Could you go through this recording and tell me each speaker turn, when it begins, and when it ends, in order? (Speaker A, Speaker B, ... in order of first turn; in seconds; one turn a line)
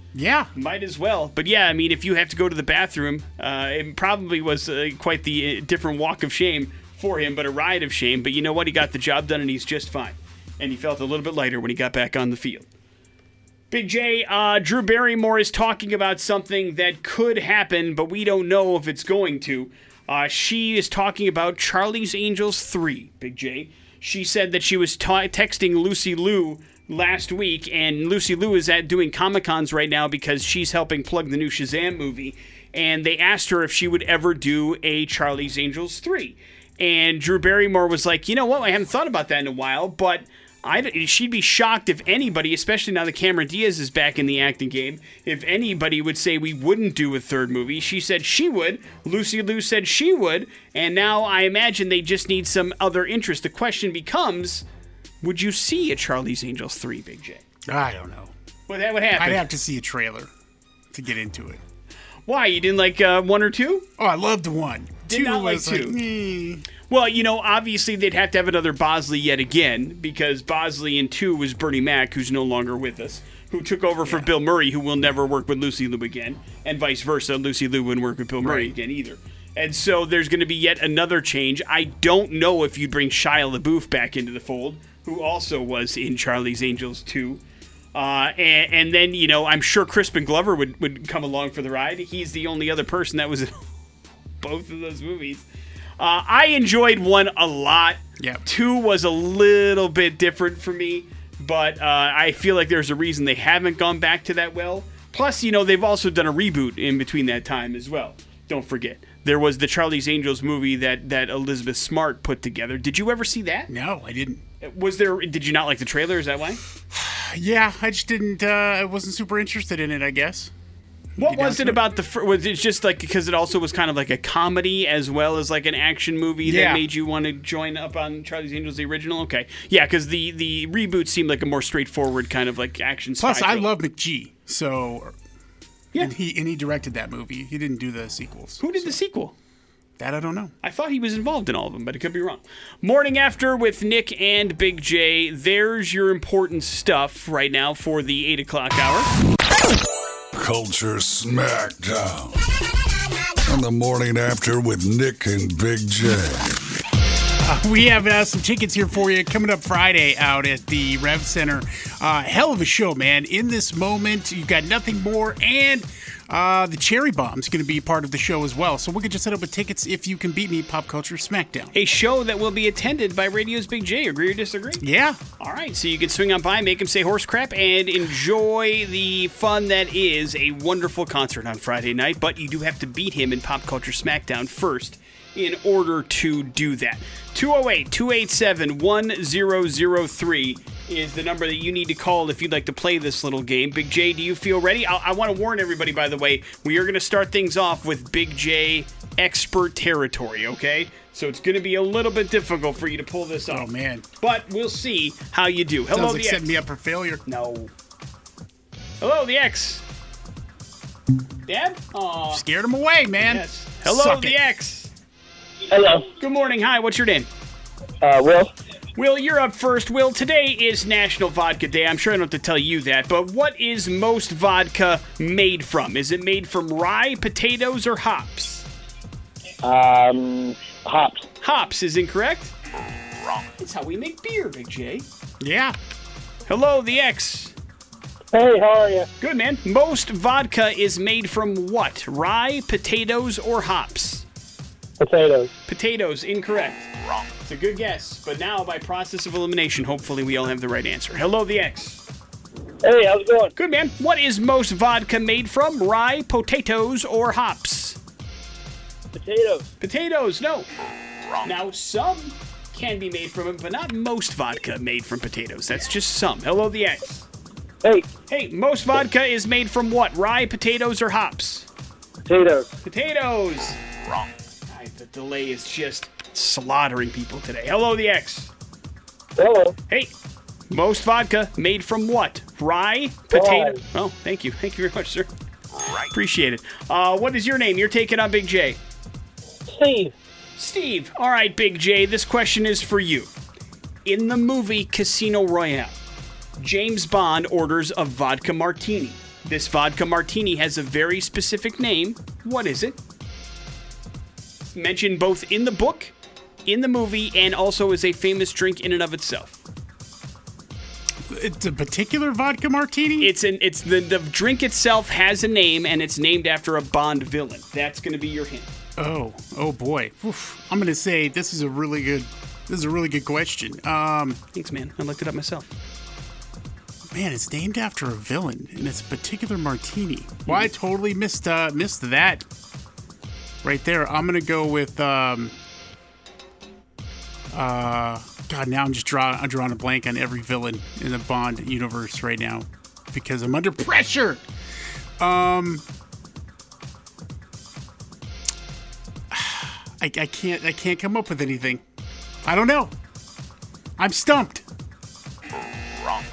Speaker A: 0.1-0.5
Speaker B: 0.6-12.7
Speaker B: 13.7-54.6
Speaker B: 55.2-57.4
Speaker A: 57.7-58.3
Speaker B: 58.7-59.5
Speaker A: 59.1-60.3
Speaker A: 60.9-61.6
Speaker B: 62.3-63.9
Speaker A: 64.0-66.7
Speaker B: 65.0-66.0
Speaker B: 66.9-87.4
Speaker A: 74.0-74.3
Speaker A: 78.4-78.7
Speaker B: 87.9-93.7
Speaker B: 94.4-95.4
Speaker B: 96.0-113.7
Speaker A: 113.7-114.4
Speaker B: 114.6-116.6
Speaker A: 116.9-120.5
Speaker A: 121.2-121.8
Speaker B: 121.2-133.7
Speaker A: 126.4-126.8
Speaker A: 133.2-135.2
Speaker A: 135.9-138.9
Speaker B: 138.6-139.3
Speaker A: 140.0-140.5
Speaker B: 140.6-149.1
Speaker C: 150.3-152.5
Speaker C: 153.5-156.6
Speaker A: 157.4-171.7
Speaker B: 171.7-174.8
Speaker A: 174.8-175.2
Speaker B: 175.4-203.7
Speaker A: 203.5-204.1
Speaker B: 204.2-206.6
Speaker A: 205.9-207.2
Speaker B: 207.2-207.7
Speaker B: 209.0-209.8
Speaker B: 211.5-212.4
Speaker A: 212.3-214.4
Speaker B: 213.2-214.9
Speaker D: 215.7-216.0
Speaker B: 216.1-217.3
Speaker D: 218.0-218.5
Speaker B: 218.9-228.7
Speaker D: 229.6-231.2
Speaker B: 231.4-232.5
Speaker B: 233.6-235.1
Speaker A: 235.4-235.8
Speaker B: 236.5-237.5
Speaker D: 238.3-239.1
Speaker B: 239.2-244.2
Speaker D: 245.0-245.5
Speaker B: 245.7-246.9
Speaker B: 247.4-252.0
Speaker D: 252.8-253.5
Speaker B: 253.6-258.0
Speaker D: 259.1-259.6
Speaker B: 259.8-260.7
Speaker B: 261.4-267.2
Speaker B: 268.3-271.7
Speaker D: 272.3-272.6
Speaker B: 272.8-273.8
Speaker B: 274.7-278.5
Speaker D: 279.4-279.7
Speaker B: 280.7-285.3
Speaker D: 283.3-283.8
Speaker B: 285.9-288.8
Speaker D: 289.7-290.1
Speaker B: 290.6-293.3
Speaker B: 294.1-295.9
Speaker B: 296.6-303.0
Speaker B: 304.6-306.1
Speaker B: 306.6-309.6
Speaker A: 311.2-313.3
Speaker B: 313.2-318.7
Speaker A: 319.0-324.4
Speaker B: 324.5-325.7
Speaker A: 327.1-332.4
Speaker A: 333.6-335.5
Speaker A: 337.5-344.4
Speaker A: 345.2-345.8
Speaker A: 349.3-351.8
Speaker A: 352.4-352.9
Speaker A: 354.0-354.6